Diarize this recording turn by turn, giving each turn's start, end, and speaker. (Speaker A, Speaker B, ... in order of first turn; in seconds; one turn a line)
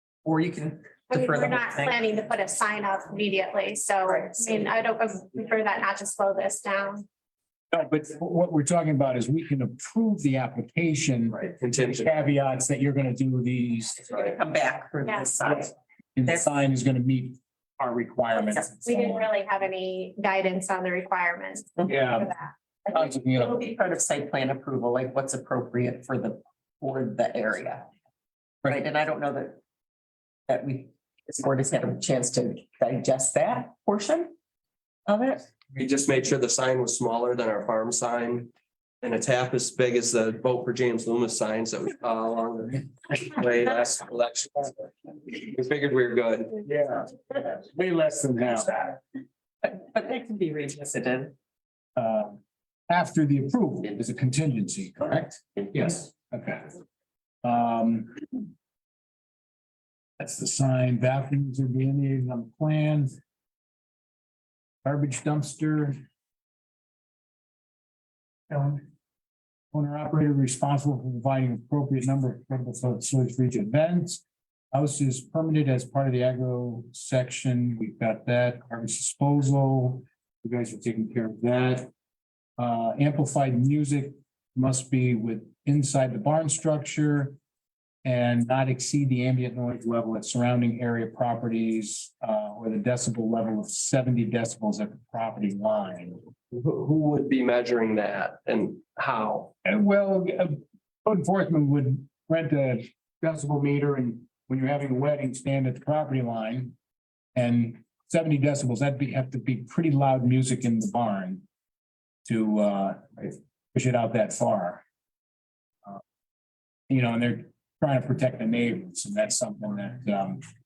Speaker A: 0.2-2.1
Speaker B: 1.1-7.0
Speaker A: 4.0-4.5
Speaker C: 7.7-11.4
Speaker D: 11.3-12.2
Speaker C: 11.9-13.9
Speaker A: 14.0-15.7
Speaker C: 16.1-19.3
Speaker A: 16.2-16.5
Speaker B: 18.8-22.5
Speaker C: 21.9-22.3
Speaker C: 22.9-23.6
Speaker A: 22.9-27.9
Speaker A: 28.6-29.6
Speaker A: 30.5-34.3
Speaker A: 35.1-35.5
Speaker D: 35.7-38.5
Speaker D: 39.0-46.6
Speaker C: 46.6-48.9
Speaker A: 49.6-51.3
Speaker C: 52.0-56.7
Speaker C: 57.4-58.2
Speaker C: 60.2-63.1
Speaker C: 64.8-66.0
Speaker C: 68.5-68.8
Speaker C: 69.7-81.9
Speaker C: 82.6-87.4
Speaker C: 88.0-96.2
Speaker D: 96.5-99.5
Speaker C: 99.6-106.7
Speaker C: 107.3-111.4
Speaker C: 112.2-114.8
Speaker C: 116.9-120.4